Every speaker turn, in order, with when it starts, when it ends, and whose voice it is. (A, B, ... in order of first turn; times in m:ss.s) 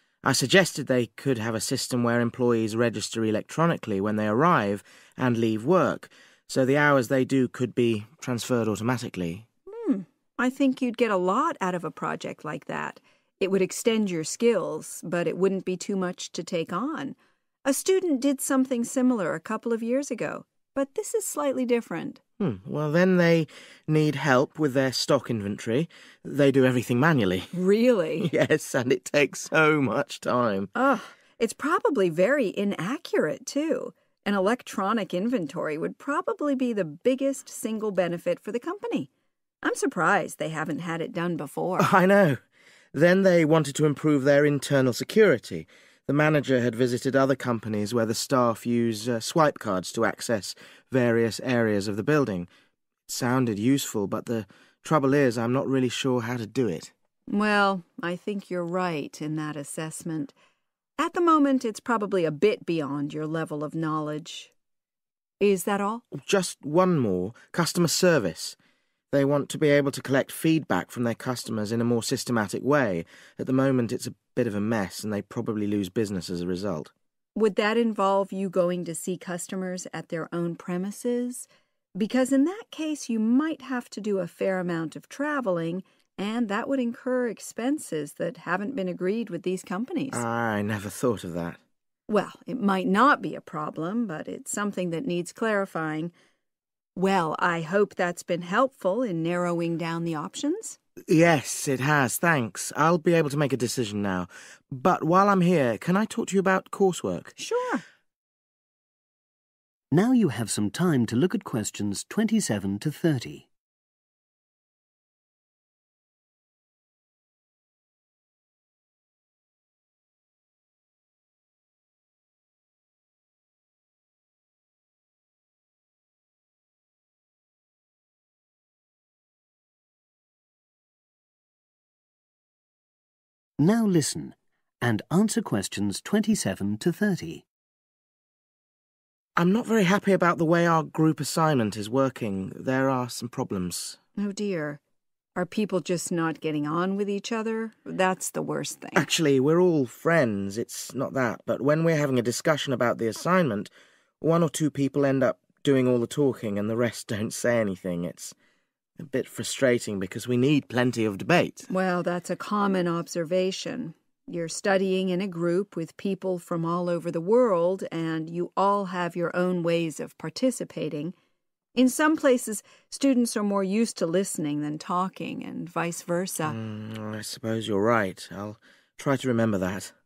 0:00.2-0:09.4 A
0:09.7-0:22.2 B
0:22.4-0:27.5 A
0:27.5-0:28.3 B
0:28.2-0:30.7 A
0:30.7-0:39.1 B
0:39.6-0:41.9 B
0:41.8-0:42.4 A
0:42.9-0:52.5 A
0:53.1-0:56.9 A
0:57.3-1:00.3 B
1:01.0-1:04.5 B
1:05.4-1:06.0 B
1:06.1-1:08.6 A
1:09.1-1:16.9 A
1:17.3-1:30.2 B
1:30.1-1:31.6 A
1:32.1-1:36.1 B
1:37.0-1:40.8 B
1:41.1-1:47.3 A
1:47.4-1:47.8 B
1:49.9-1:53.5 C
2:13.6-2:17.4 C
2:19.4-2:24.0 A
2:24.2-2:24.8 B
2:25.4-2:29.1 B
2:29.0-2:33.7 A
2:34.2-2:38.3 A
2:39.0-2:41.6 A
2:41.7-2:51.1 B
2:51.7-2:56.6 B
2:56.4-2:59.9 A